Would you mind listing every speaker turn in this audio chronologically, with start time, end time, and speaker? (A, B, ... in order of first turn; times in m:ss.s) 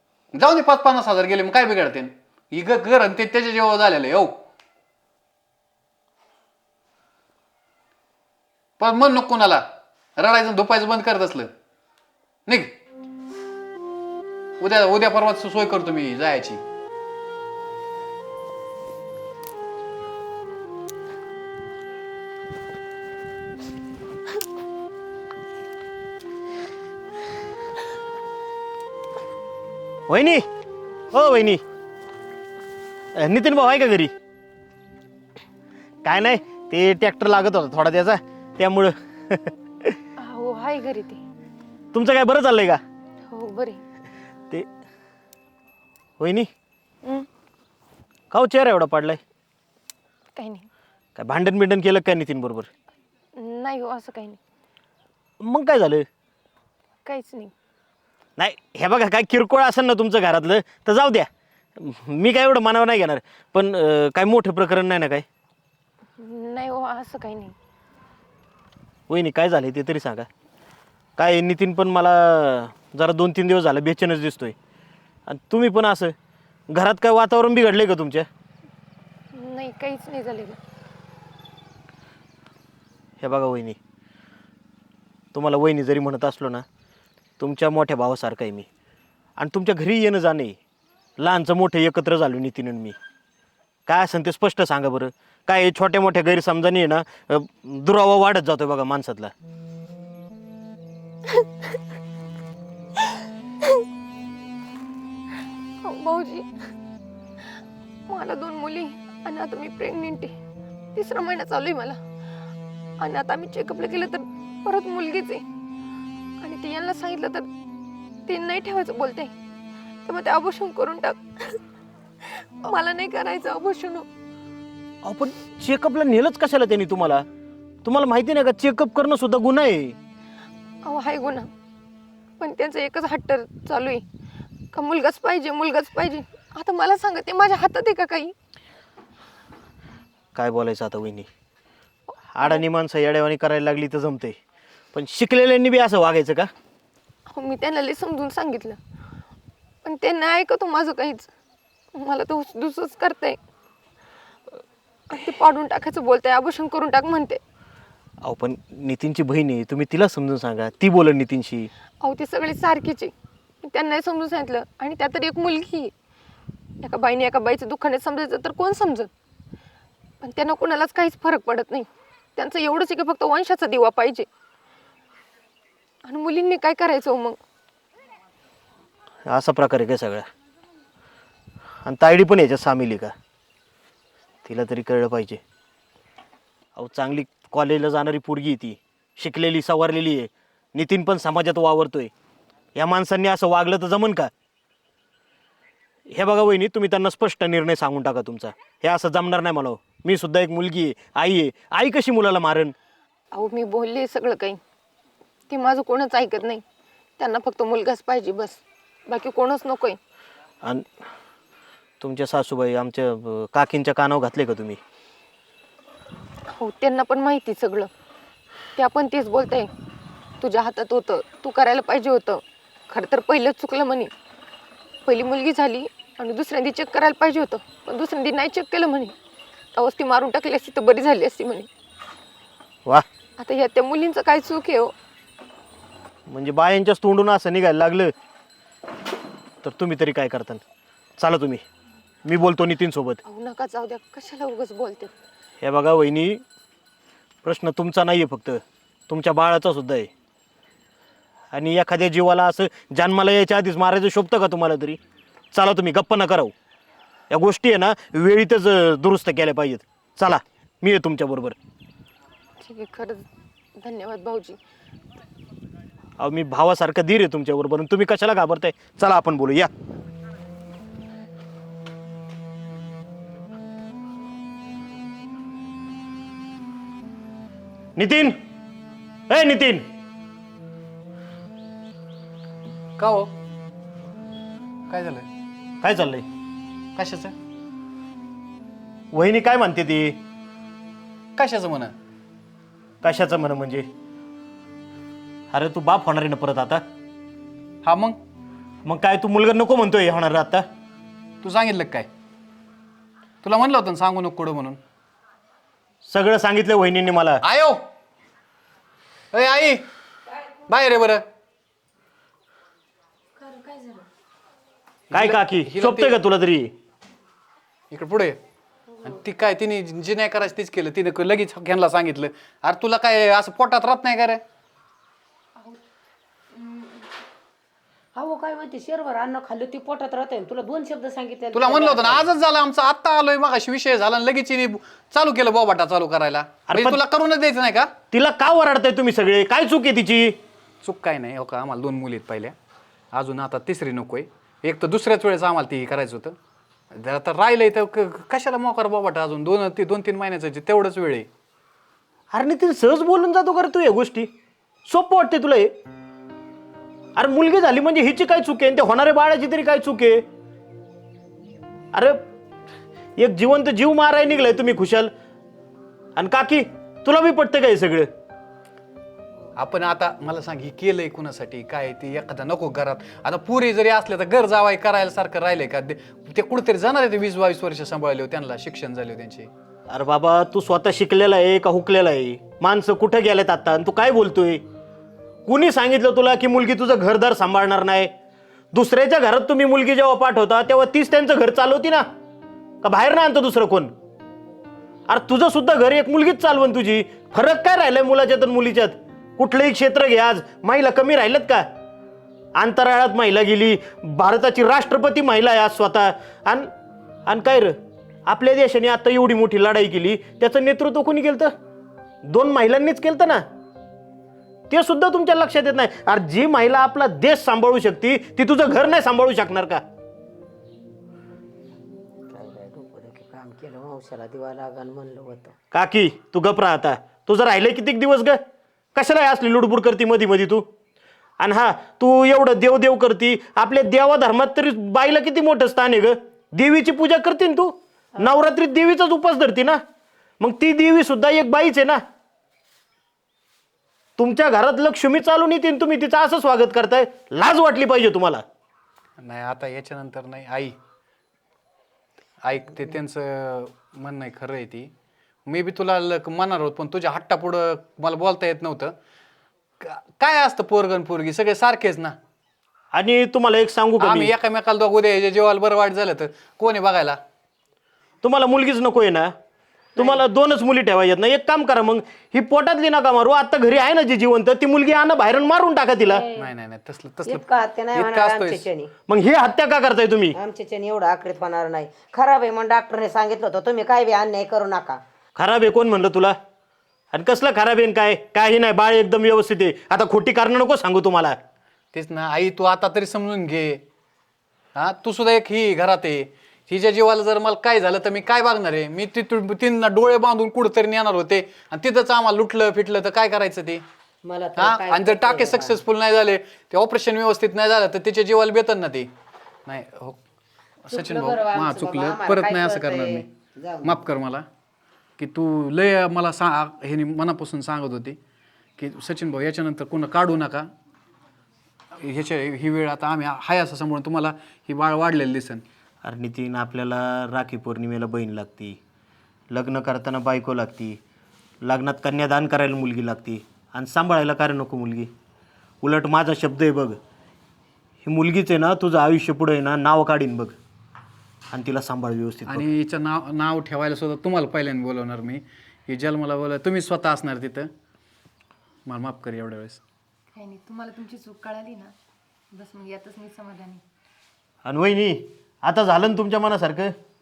0:00.3-0:04.4 A
0:08.8-0:09.6 A
0:10.2-0:11.5 A
0:12.4-0:12.7 A
0:14.6-0:16.6 A
0:30.1-0:30.4 B
0:31.1-0:31.6 B
0:33.2-0:34.1 B
0:36.0-0:39.4 B
0:40.2-0:41.2 C
0:41.9-0:42.8 B
0:43.3-0:43.8 C
0:46.2-0:46.5 B
0:48.3-0:49.2 B
0:50.4-0:50.7 C
0:51.2-0:52.7 B
0:53.4-0:54.4 C
0:55.4-0:56.0 B
0:57.0-0:57.5 C
0:58.4-1:05.2 B
1:06.2-1:07.5 C
1:09.1-1:10.3 B
1:11.2-1:14.5 B
1:15.3-1:16.1 B
1:16.7-1:18.2 B
1:19.3-1:20.6 C
1:23.2-1:23.8 B
1:25.3-1:26.6 B
1:27.4-1:28.7 B
1:29.4-1:30.6 B
1:31.2-1:33.0 B
1:33.9-1:39.3 B
1:45.8-1:46.4 C
1:48.1-1:50.3 C
1:50.9-1:52.0 C
1:53.0-1:55.4 C
1:56.4-1:57.4 C
1:58.3-1:59.3 C
2:00.1-2:01.6 C
2:02.4-2:04.0 C
2:05.0-2:07.2 B
2:07.8-2:10.0 B
2:10.8-2:11.5 C
2:12.4-2:14.0 C
2:14.7-2:18.3 C
2:20.3-2:21.3 B
2:22.3-2:24.4 B
2:24.9-2:26.5 B
2:27.3-2:28.8 C
2:29.8-2:31.3 C
2:31.9-2:33.4 C
2:35.1-2:37.4 C
2:38.2-2:41.7 B
2:42.0-2:43.1 C
2:43.6-2:45.9 C
2:46.8-2:49.1 C
2:50.2-2:54.2 C
2:56.0-2:57.4 C
2:59.3-3:00.2 B
3:01.8-3:03.1 B
3:04.4-3:05.4 B
3:06.8-3:12.1 B
3:12.8-3:14.3 B
3:16.1-3:22.7 B
3:23.3-3:24.6 C
3:25.5-3:26.6 C
3:27.2-3:30.0 C
3:32.0-3:34.8 B
3:36.5-3:37.9 C
3:38.8-3:39.7 C
3:40.4-3:44.1 C
3:45.0-3:49.1 C
3:49.8-3:51.7 C
3:53.4-3:54.9 C
3:56.3-3:58.1 B
3:59.6-4:00.6 B
4:01.2-4:01.6 B
4:02.2-4:03.2 B
4:03.3-4:05.1 C
4:05.6-4:06.4 B
4:07.4-4:10.1 B
4:11.5-4:15.0 B
4:15.5-4:16.5 B
4:17.3-4:21.6 B
4:22.6-4:23.2 C
4:23.8-4:24.6 C
4:26.2-4:29.7 B
4:38.0-4:38.3 B
4:39.3-4:39.8 B
4:43.0-4:43.3 A
4:44.9-4:45.2 A
4:45.8-4:46.2 B
4:47.0-4:47.3 A
4:49.1-4:50.2 B
4:51.4-4:51.9 A
4:53.0-4:53.8 B
4:55.5-4:56.8 B
4:57.8-4:58.2 A
4:58.8-5:00.6 B
5:01.4-5:02.1 A
5:03.4-5:04.8 A
5:06.1-5:07.4 B
5:07.4-5:07.8 A
5:09.3-5:09.8 A
5:10.7-5:11.2 A
5:13.4-5:13.9 C
5:15.1-5:16.1 A
5:15.1-5:16.7 B
5:17.9-5:18.4 A
5:19.0-5:24.4 A
5:28.1-5:32.3 D
5:31.5-5:37.9 A
5:36.7-5:37.0 B
5:38.1-5:40.4 B
5:40.8-5:42.5 A
5:43.1-5:46.4 A
5:46.9-5:51.3 A
5:52.3-5:54.3 B
5:54.9-5:55.7 B
5:57.2-6:00.2 B
6:03.2-6:05.1 B
6:06.2-6:08.1 B
6:09.6-6:19.5 A
6:19.9-6:24.6 B
6:25.5-6:28.1 B
6:28.7-6:32.0 B
6:32.8-6:33.9 B
6:35.1-6:41.6 B
6:42.6-6:46.7 B
6:47.3-6:47.7 B
6:48.3-6:51.5 B
6:52.2-6:53.4 B
6:54.7-6:59.8 B
7:02.3-7:05.5 D
7:05.7-7:08.4 B
7:08.9-7:10.6 B
7:11.4-7:19.8 B
7:20.4-7:22.0 B
7:24.2-7:28.4 B
7:29.2-7:30.7 A
7:32.4-7:34.9 A
7:35.4-7:38.9 A
7:39.8-7:42.2 A
7:42.9-7:44.3 B
7:44.0-7:47.2 A
7:48.2-7:49.3 B
7:50.0-7:56.2 B
7:50.0-7:50.2 A
7:56.0-7:56.5 D
7:56.3-7:58.7 A
7:57.2-7:58.9 D
7:59.1-8:00.3 B
8:00.3-8:05.0 D
8:05.4-8:06.3 B
8:07.1-8:11.4 B
8:11.9-8:13.8 A
8:14.7-8:23.8 A
8:24.2-8:25.8 D
8:24.6-8:29.1 A
8:29.6-8:30.2 A
8:30.8-8:33.2 A
8:30.9-8:34.0 D
8:33.8-8:34.4 A
8:35.2-8:38.2 A
8:38.8-8:40.7 A
8:42.0-8:45.6 A
8:46.0-8:48.8 B
8:49.5-8:51.0 B
8:51.6-8:55.1 B
8:55.8-8:57.0 B
8:58.0-9:00.6 B
9:01.5-9:02.6 B
9:02.5-9:07.7 A
9:08.9-9:09.8 A
9:10.3-9:11.9 C
9:12.5-9:13.8 C
9:14.6-9:16.9 B